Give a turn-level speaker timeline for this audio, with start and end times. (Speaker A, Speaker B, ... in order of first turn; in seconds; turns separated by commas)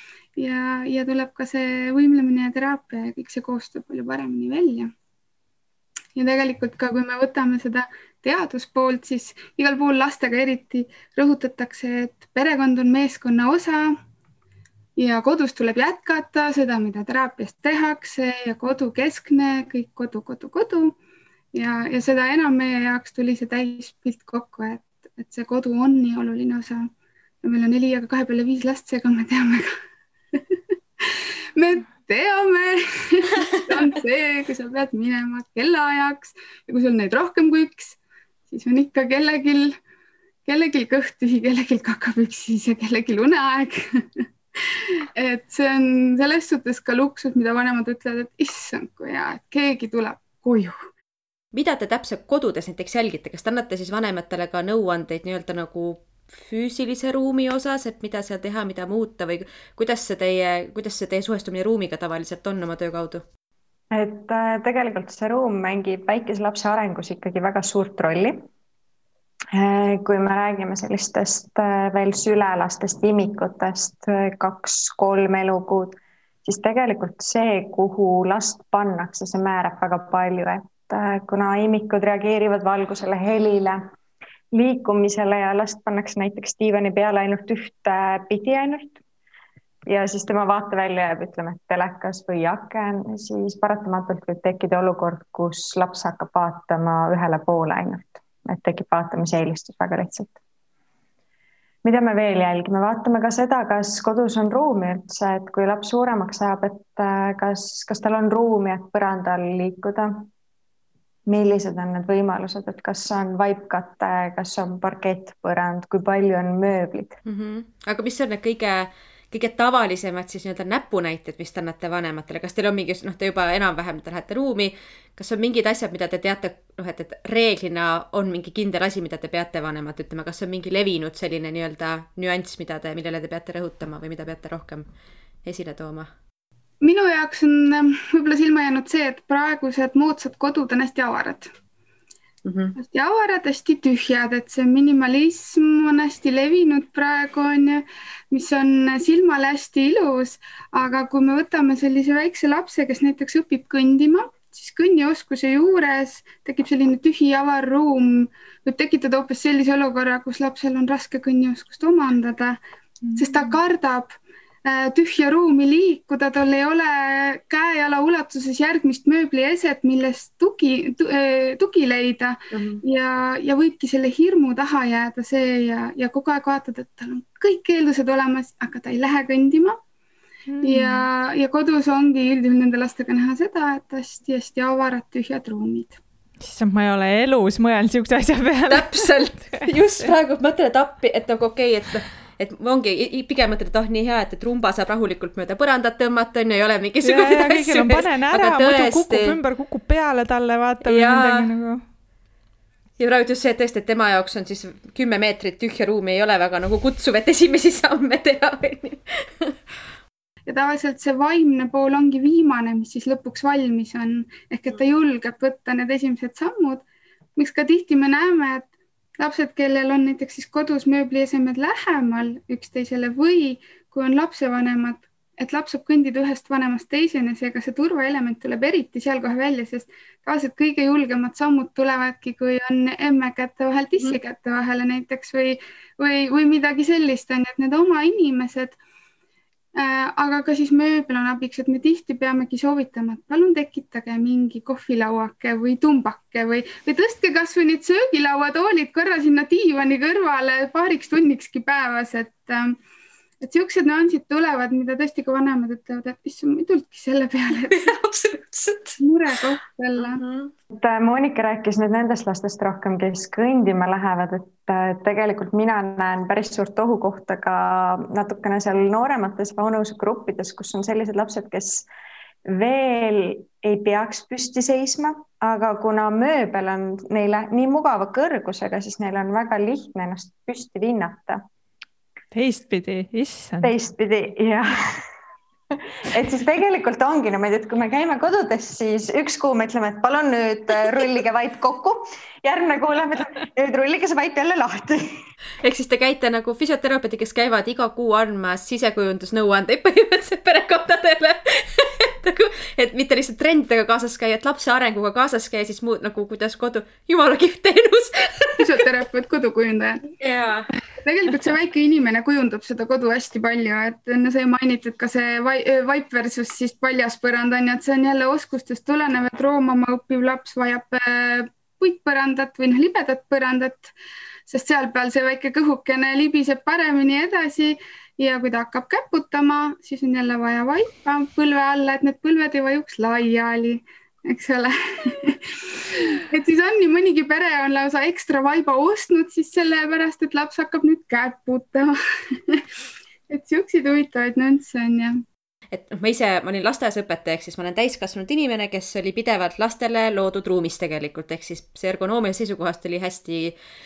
Speaker A: 0.3-4.9, Speaker A: 6.1-13.9, Speaker A: 15.0-20.9, Speaker A: 21.5-26.9, Speaker A: 27.4-29.7, Speaker A: 31.0-38.0, Speaker A: 38.5-39.8, Speaker A: 40.5-50.8, Speaker B: 51.5-63.2, Speaker C: 63.9-68.4, Speaker C: 69.5-83.8, Speaker C: 84.5-89.0, Speaker C: 89.9-100.3, Speaker C: 101.8-110.3, Speaker C: 111.3-117.1, Speaker B: 117.2-134.8, Speaker B: 135.4-136.1, Speaker A: 136.8-141.5, Speaker B: 142.4-142.8, Speaker A: 142.8-162.6, Speaker D: 163.0-163.6, Speaker A: 163.2-164.1, Speaker A: 164.7-179.8, Speaker B: 172.5-172.8, Speaker D: 180.5-181.1, Speaker A: 180.6-186.0, Speaker D: 186.4-190.1, Speaker B: 188.7-199.4, Speaker D: 197.0-201.8, Speaker B: 200.8-201.5, Speaker B: 203.0-209.5, Speaker A: 210.5-216.8, Speaker A: 217.3-218.7, Speaker A: 219.2-238.7, Speaker A: 239.8-252.8, Speaker A: 253.4-257.9, Speaker B: 257.7-258.9, Speaker A: 259.0-260.2, Speaker B: 260.0-260.5, Speaker C: 260.7-271.9, Speaker C: 272.5-281.4, Speaker D: 282.3-283.7, Speaker C: 283.6-284.7, Speaker C: 286.1-295.1, Speaker B: 295.6-308.5, Speaker A: 308.6-310.0, Speaker B: 310.2-310.7, Speaker A: 311.0-323.9, Speaker A: 324.5-342.6, Speaker A: 343.3-345.2, Speaker B: 345.7-353.5